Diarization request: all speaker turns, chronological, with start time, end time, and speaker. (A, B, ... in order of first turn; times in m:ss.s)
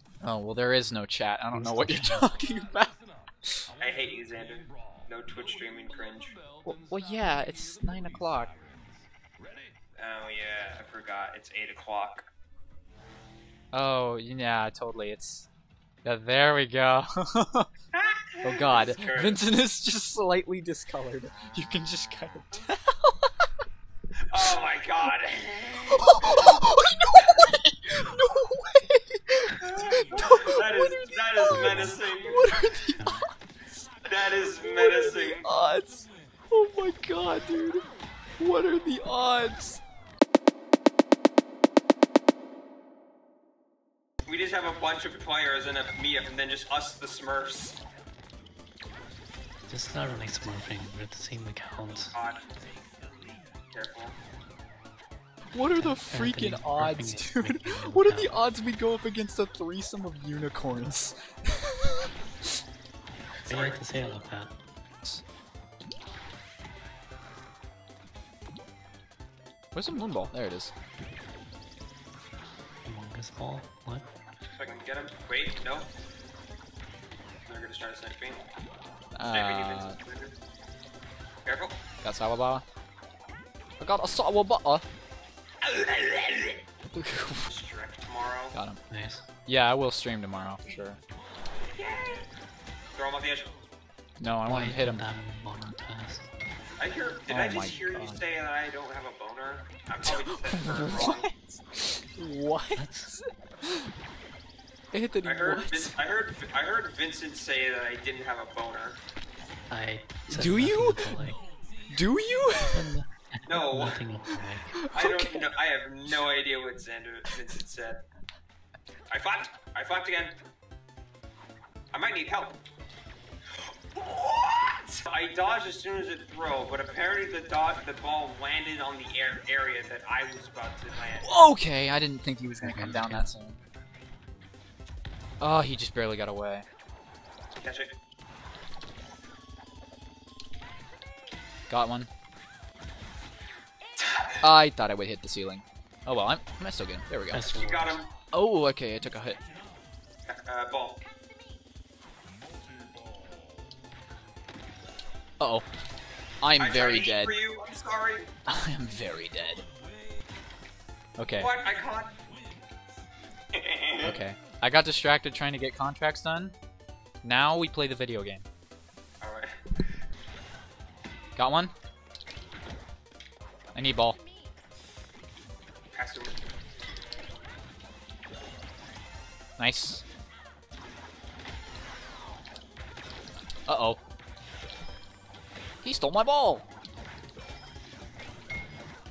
0:00.2-0:03.6 A
0:01.5-0:02.2 B
0:03.8-0:06.4 C
0:06.6-0:08.5 A
0:10.0-0:12.2 C
0:13.7-0:15.5 A
0:16.0-0:17.7 A
0:18.0-0:19.4 C
0:18.4-0:23.2 A
0:24.3-0:26.3 C
0:25.9-0:33.2 A
0:29.6-0:32.5 C
0:31.5-0:31.9 B
0:33.0-0:33.3 B
0:34.0-0:35.5 C
0:34.6-0:37.8 A
0:38.4-0:39.8 A
0:44.2-0:47.8 C
0:49.6-0:52.1 B
0:52.1-0:52.4 C
0:53.7-0:54.2 C
0:55.5-1:02.1 A
0:55.7-0:58.4 B
1:03.4-1:04.5 B
1:03.5-1:04.1 C
1:09.7-1:10.7 A
1:12.8-1:14.1 B
1:14.5-1:15.9 C
1:17.4-1:18.4 C
1:19.1-1:20.0 A
1:19.3-1:20.3 C
1:21.4-1:21.8 C
1:22.0-1:22.6 A
1:23.8-1:24.8 A
1:25.8-1:26.6 C
1:27.0-1:27.4 A
1:27.5-1:28.6 C
1:28.5-1:28.8 A
1:28.9-1:29.3 B
1:29.4-1:31.0 A
1:31.7-1:32.3 C
1:32.9-1:33.5 C
1:34.2-1:35.0 A
1:34.5-1:36.3 B
1:36.8-1:41.4 C
1:37.3-1:38.2 A
1:40.0-1:41.3 A
1:41.9-1:43.7 A
1:42.8-1:43.1 B
1:44.9-1:45.9 A
1:45.2-1:49.0 C
1:49.7-1:51.4 B
1:50.3-1:51.2 A
1:51.9-1:52.9 A
1:52.7-1:54.7 B
1:53.4-1:54.0 C
1:54.8-1:55.5 A
1:54.9-1:58.0 C
1:59.1-2:00.3 C
2:01.9-2:02.6 C
2:03.9-2:11.3 C
2:11.2-2:13.6 A
2:12.6-2:13.2 B
2:15.4-2:16.6 A
2:17.6-2:17.9 C
2:21.7-2:22.1 A
2:24.0-2:24.3 C
2:24.4-2:27.4 A
2:27.3-2:28.0 B
2:27.5-2:28.1 C
2:28.3-2:29.4 A
2:30.3-2:31.0 C
2:35.4-2:35.6 A
2:36.4-2:37.4 A
2:36.6-2:38.3 C
2:38.5-2:39.7 A
2:41.2-2:41.5 A
2:41.4-2:42.1 C
2:43.5-2:44.2 C
2:44.0-2:46.5 A
2:47.2-2:48.4 A
2:49.2-2:49.6 C
2:51.4-2:51.7 A
2:53.7-2:54.2 A
2:55.9-2:56.3 C
2:59.6-3:00.0 A
3:03.7-3:04.0 A
3:05.8-3:06.6 A